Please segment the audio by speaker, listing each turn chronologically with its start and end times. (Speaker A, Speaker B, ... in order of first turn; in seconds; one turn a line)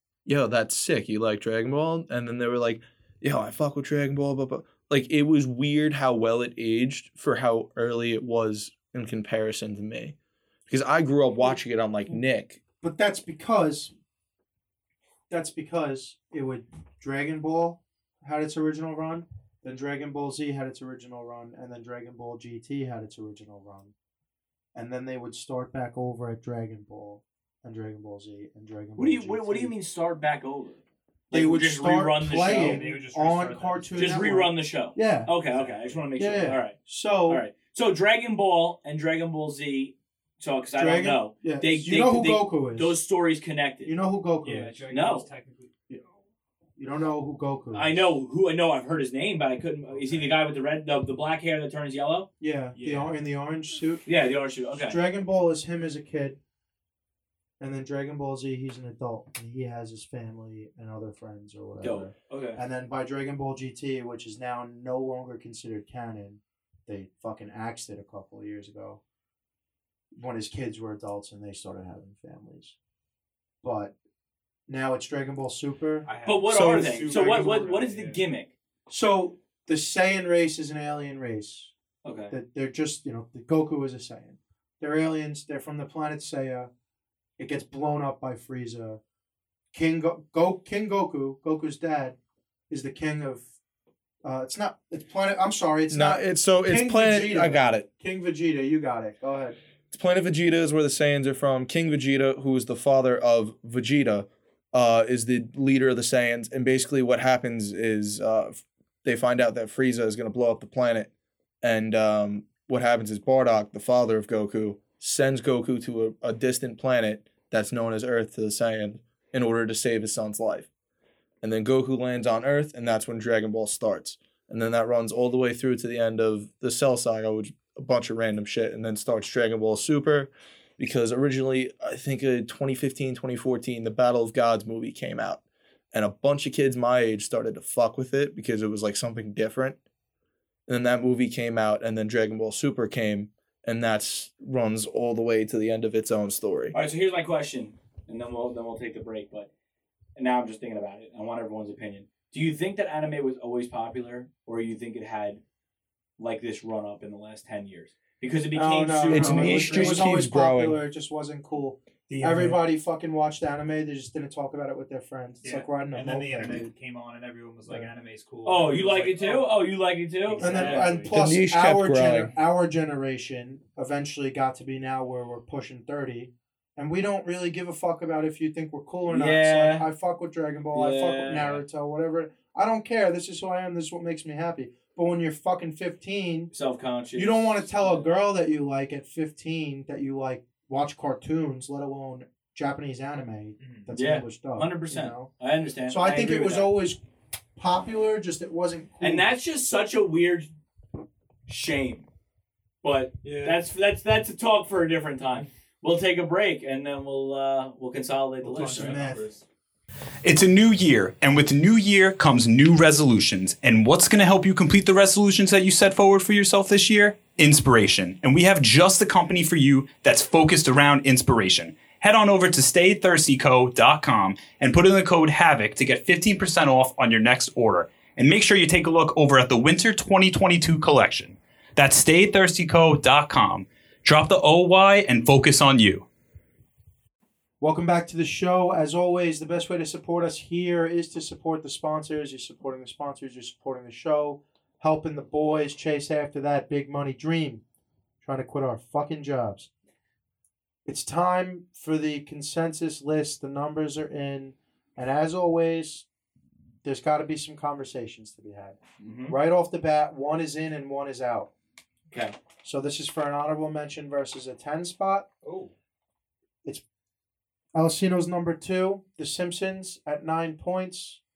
Speaker A: 0.2-10.2
Speaker A: 10.7-12.6
Speaker B: 12.8-13.9
Speaker B: 15.3-23.9
Speaker B: 24.8-29.7
Speaker C: 29.0-32.8
Speaker B: 31.3-35.3
Speaker D: 32.4-34.4
Speaker C: 34.0-36.8
Speaker D: 35.5-36.0
Speaker B: 36.2-37.4
Speaker C: 37.3-43.9
Speaker B: 40.8-43.0
Speaker B: 43.9-44.8
Speaker D: 44.4-45.7
Speaker C: 44.9-45.3
Speaker B: 46.8-48.1
Speaker C: 47.7-52.3
Speaker D: 49.9-50.4
Speaker B: 52.4-54.0
Speaker D: 52.7-53.2
Speaker C: 54.1-55.0
Speaker B: 54.9-56.4
Speaker B: 57.6-69.0
Speaker C: 61.8-62.6
Speaker B: 70.2-72.8
Speaker B: 73.6-73.9
Speaker B: 74.7-77.7
Speaker D: 76.0-78.2
Speaker C: 76.2-78.5
Speaker B: 78.9-81.7
Speaker C: 82.0-82.3
Speaker B: 82.3-86.7
Speaker B: 87.4-89.0
Speaker B: 89.7-92.2
Speaker B: 92.7-93.5
Speaker B: 94.2-99.6
Speaker A: 95.9-97.9
Speaker A: 99.9-111.1
Speaker A: 111.6-120.7
Speaker A: 121.4-135.4
Speaker A: 135.9-139.8
Speaker A: 140.7-146.7
Speaker C: 146.7-149.5
Speaker C: 150.2-155.4
Speaker C: 156.2-160.1
Speaker B: 158.5-166.7
Speaker A: 159.1-160.8
Speaker D: 162.1-162.6
Speaker D: 165.4-169.5
Speaker C: 168.4-170.9
Speaker D: 170.2-171.1
Speaker B: 170.4-186.5
Speaker A: 171.1-172.3
Speaker C: 179.1-179.9
Speaker C: 180.7-181.6
Speaker C: 186.5-188.1
Speaker B: 187.2-195.3
Speaker D: 193.6-193.9
Speaker C: 193.9-196.7
Speaker B: 195.9-197.0
Speaker B: 197.6-199.3
Speaker C: 199.0-200.5
Speaker C: 201.5-202.1
Speaker C: 202.8-209.1
Speaker D: 203.2-203.6
Speaker B: 208.4-209.3
Speaker D: 208.5-209.4
Speaker E: 210.3-236.0
Speaker B: 237.6-247.6
Speaker B: 248.2-249.7
Speaker B: 250.9-256.1
Speaker B: 256.8-261.5
Speaker C: 259.0-259.4
Speaker C: 262.1-262.4
Speaker B: 262.6-265.3
Speaker D: 265.4-265.7
Speaker B: 267.7-271.2